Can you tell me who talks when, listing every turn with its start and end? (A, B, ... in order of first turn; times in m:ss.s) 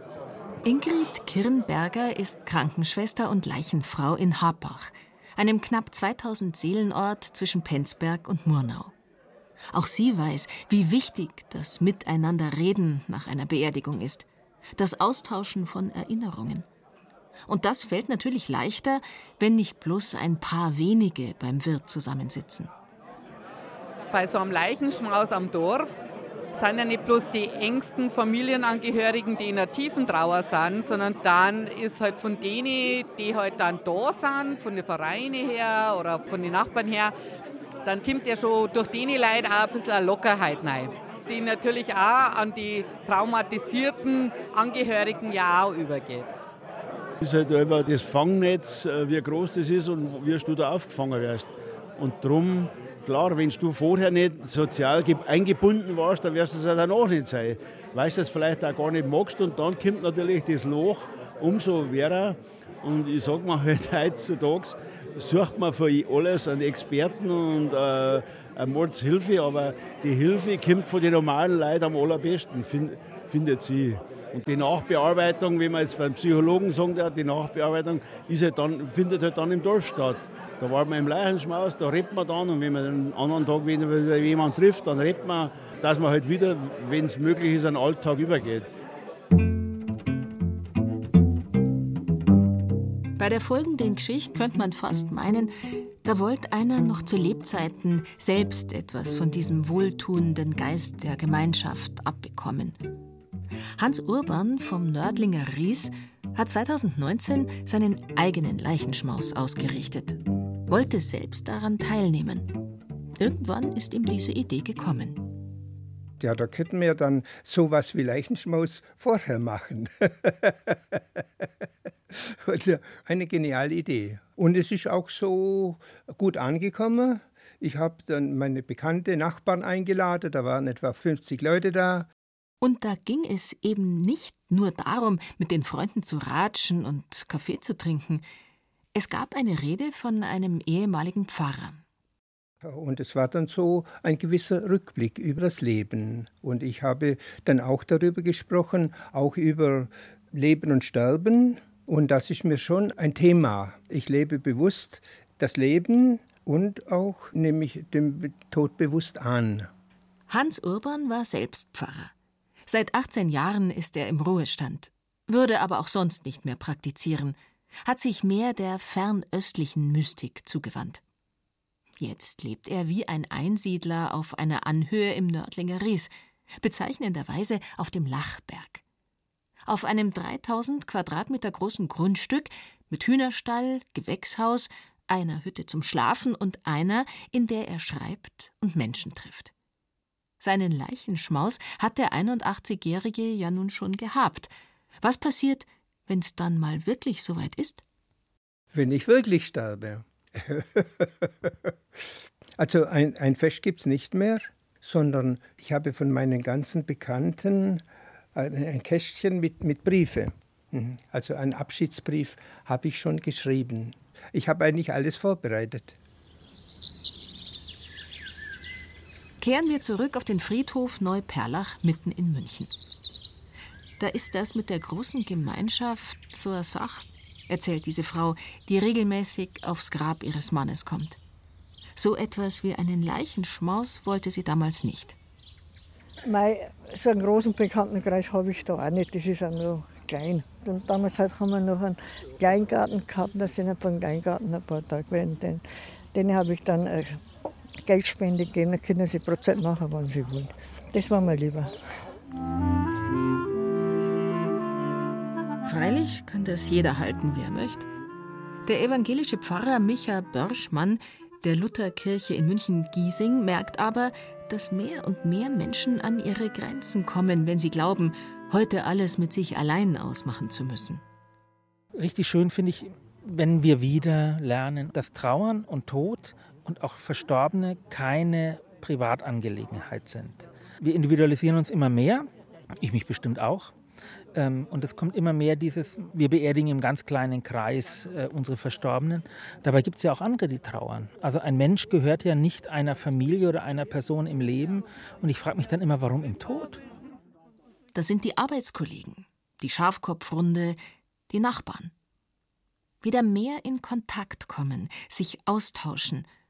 0:00.6-0:08.9 A
0:09.7-0:16.7 A
0:17.5-0:22.7 A
0:24.1-0:26.0 B
0:26.5-0:37.1 B
0:37.8-0:46.3 B
0:47.2-1:28.8 C
1:33.2-1:35.5 A
1:36.0-1:42.8 A
1:43.8-1:52.5 A
1:53.2-1:55.3 A
1:56.2-2:01.0 D
2:02.1-2:12.1 D
2:12.6-2:18.2 A
2:18.9-2:21.8 A
2:22.6-2:39.7 D
2:40.3-2:42.1 A
2:42.7-2:51.0 A
2:52.0-2:58.8 A
2:59.7-3:09.5 A
3:10.4-3:17.8 A
3:18.7-3:21.5 D
3:22.6-3:27.8 D
3:28.4-3:36.0 D
3:39.4-3:42.7 A
3:44.0-3:51.2 A
3:52.0-3:55.2 A
3:56.3-4:05.6 E
4:06.1-4:07.2 E
4:07.8-4:11.7 E
4:15.6-4:17.9 A
4:18.6-4:31.0 A
4:32.0-4:42.3 F
4:42.8-4:43.7 F
4:44.3-4:56.8 F
4:57.9-5:00.8 A
5:01.3-5:01.9 A
5:03.0-5:06.3 A